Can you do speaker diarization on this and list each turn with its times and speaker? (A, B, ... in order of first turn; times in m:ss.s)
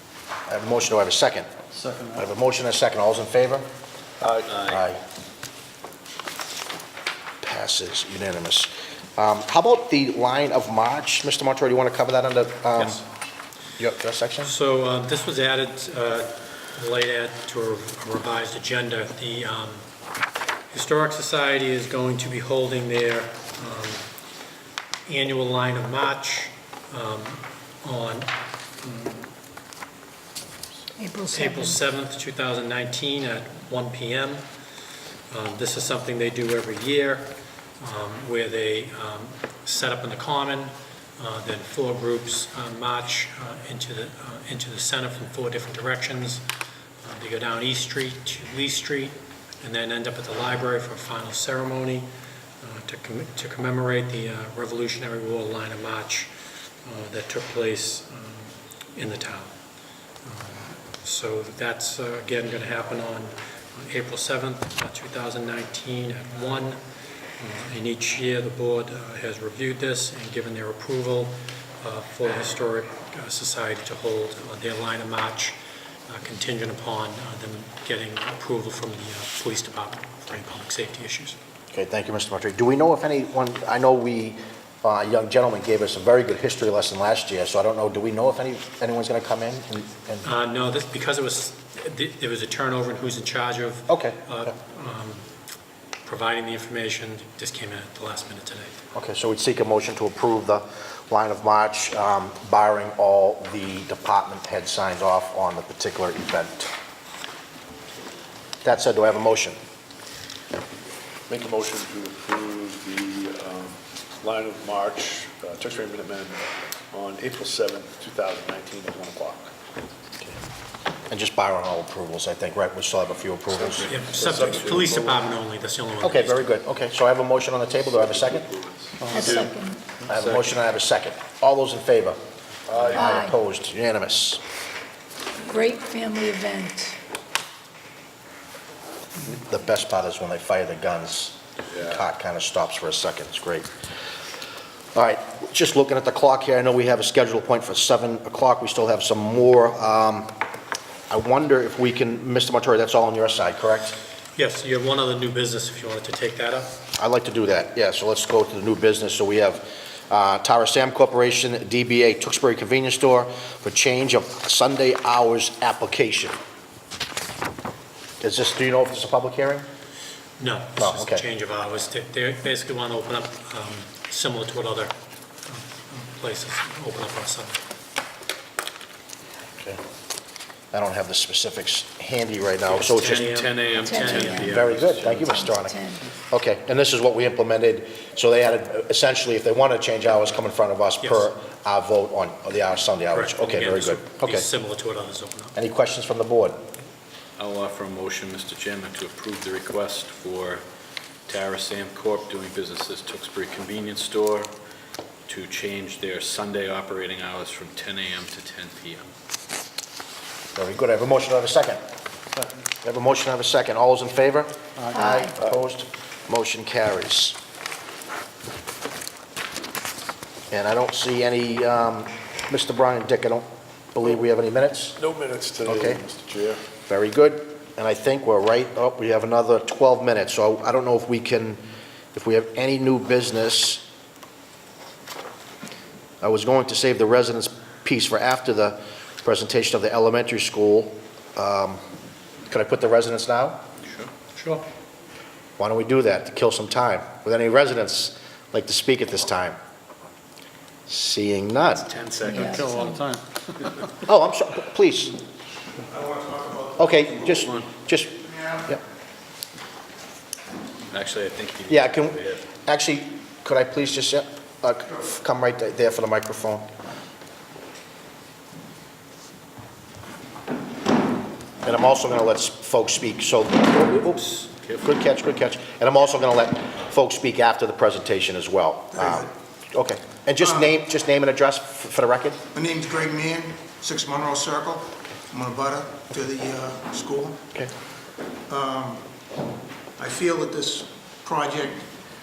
0:00.5-0:01.4 A
0:02.1-0:03.6 A
0:04.5-0:04.8 B
0:04.6-0:05.0 A
0:07.4-0:13.0 A
0:12.8-0:13.0 C
0:13.8-0:14.5 A
0:14.4-0:19.8 C
0:20.7-0:24.0 C
0:25.1-0:28.3 C
0:28.8-0:29.2 C
0:31.0-0:31.8 D
0:31.3-0:34.4 C
0:35.3-0:46.4 C
0:47.0-0:52.1 C
0:52.6-0:56.3 C
0:56.8-0:59.5 C
1:00.2-1:06.8 C
1:07.4-1:15.6 C
1:16.1-1:21.4 C
1:21.7-1:30.3 A
1:30.2-1:35.2 C
1:33.9-1:34.2 A
1:36.0-1:38.7 C
1:38.9-1:46.7 A
1:48.6-1:49.6 A
1:51.3-1:59.5 E
2:01.1-2:04.0 A
2:03.8-2:06.5 C
2:04.1-2:05.3 E
2:06.0-2:08.5 A
2:09.1-2:09.8 D
2:10.1-2:12.2 A
2:10.2-2:10.5 B
2:12.7-2:13.0 E
2:12.9-2:14.4 A
2:12.9-2:13.3 D
2:15.4-2:17.0 D
2:19.2-2:23.7 A
2:24.9-2:30.3 A
2:31.1-2:34.0 A
2:34.4-2:36.7 C
2:37.0-2:46.4 A
2:48.2-2:49.6 A
2:50.4-2:54.9 C
2:50.8-2:51.2 A
2:55.5-2:57.6 C
3:00.7-3:03.3 A
3:02.6-3:05.3 B
3:02.9-3:04.2 C
3:03.8-3:06.1 D
3:04.0-3:05.8 A
3:06.3-3:14.5 A
3:11.0-3:11.3 C
3:13.1-3:15.6 C
3:15.6-3:16.6 A
3:17.4-3:20.6 B
3:21.3-3:24.5 B
3:25.3-3:29.1 B
3:30.5-3:31.8 A
3:32.8-3:37.4 A
3:34.9-3:35.3 D
3:40.5-3:45.0 A
3:45.0-3:46.6 E
3:45.6-3:46.0 A
3:46.9-3:51.6 A
3:52.1-3:53.8 A
3:56.2-4:01.8 A
4:02.5-4:03.6 A
4:03.8-4:04.1 B
4:04.2-4:04.6 C
4:05.6-4:09.6 A
4:10.9-4:11.8 A
4:11.8-4:13.8 B
4:12.2-4:13.1 D
4:14.0-4:15.2 A
4:15.8-4:17.4 F
4:16.8-4:18.2 A
4:17.4-4:17.7 B
4:18.1-4:18.8 F
4:20.9-4:22.4 B
4:21.7-4:26.7 A
4:31.6-4:42.4 A
4:38.9-4:39.3 F
4:40.4-4:40.7 F
4:42.5-4:47.4 F
4:48.5-4:49.1 F
4:50.0-4:51.9 F